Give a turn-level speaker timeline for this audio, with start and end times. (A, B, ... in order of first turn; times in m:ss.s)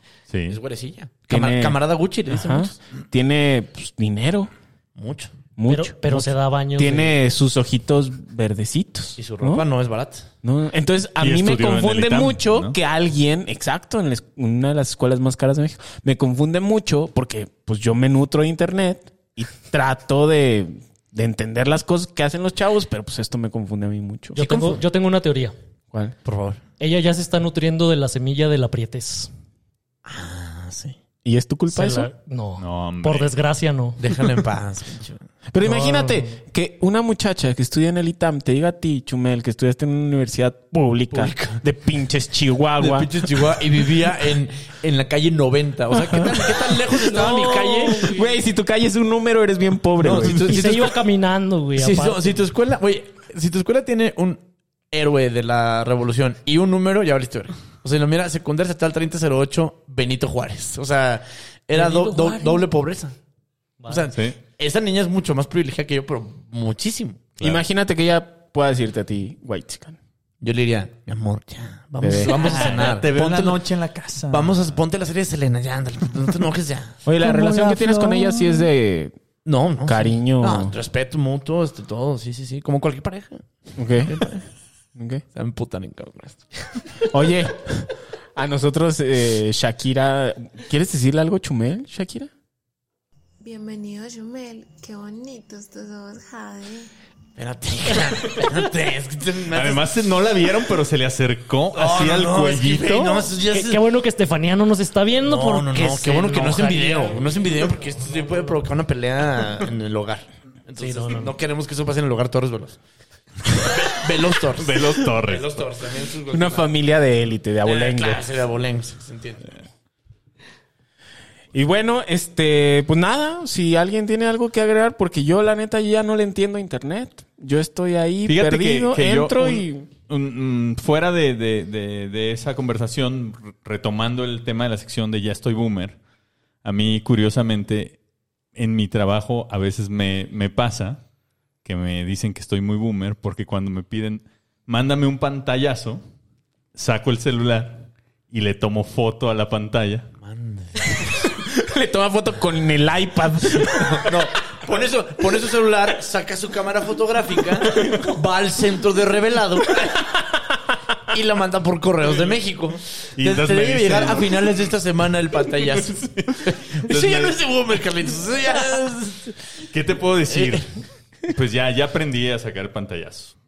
0:00.3-0:00.6 A
0:00.5-0:02.8 B
0:01.3-0:04.5 C
0:05.0-0:05.3 B
0:05.6-0:09.6 C
0:05.7-0:07.2 D
0:09.2-0:10.3 B
0:10.4-0:24.4 C
0:11.2-0:12.8 A
0:24.4-0:25.5 D
0:24.4-0:24.8 B
0:26.2-0:26.6 B
0:26.8-0:29.3 D
0:30.1-0:31.0 B
0:31.2-0:32.1 C
0:31.7-0:34.0 D
0:32.6-0:33.3 A
0:34.0-0:35.3 B
0:35.5-0:43.3 C
0:35.6-0:36.3 D
0:41.1-0:41.6 B
0:42.8-0:48.2 B
0:45.9-0:46.6 C
0:47.0-0:48.3 D
0:48.0-0:50.6 C
0:50.0-0:51.0 B
0:50.3-0:52.4 D
0:51.8-1:03.2 B
1:01.7-1:02.6 D
1:03.8-1:04.1 D
1:03.9-1:07.3 B
1:07.4-1:10.0 C
1:10.4-1:13.6 B
1:12.0-1:12.3 C
1:12.4-1:14.5 A
1:12.5-1:12.9 D
1:14.3-1:17.0 B
1:17.0-1:19.2 C
1:17.2-1:18.5 A
1:19.4-1:23.4 B
1:19.8-1:20.7 C
1:23.8-1:24.2 C
1:24.1-1:24.5 B
1:25.0-1:25.2 C
1:25.4-1:27.0 B
1:27.1-1:32.3 C
1:33.4-1:36.9 E
1:37.4-1:39.8 B
1:39.5-1:43.3 A
1:41.7-1:43.8 B
1:43.5-1:48.6 D
1:45.2-1:52.8 B
1:50.8-1:51.4 D
1:53.5-1:56.7 B
1:54.6-1:55.6 A
1:56.3-1:58.3 C
1:57.6-1:59.6 B
2:01.5-2:09.9 C
2:08.3-2:16.0 A
2:16.6-2:18.0 A
2:18.6-2:21.0 A
2:21.6-2:26.0 A
2:26.8-2:30.1 A
2:30.2-2:31.3 B
2:31.4-2:34.2 C
2:33.6-2:40.1 B
2:41.1-2:49.4 B
2:43.2-2:44.6 A
2:45.7-2:47.4 A
2:49.7-2:50.7 A
2:50.3-2:50.6 B
2:51.3-2:53.4 A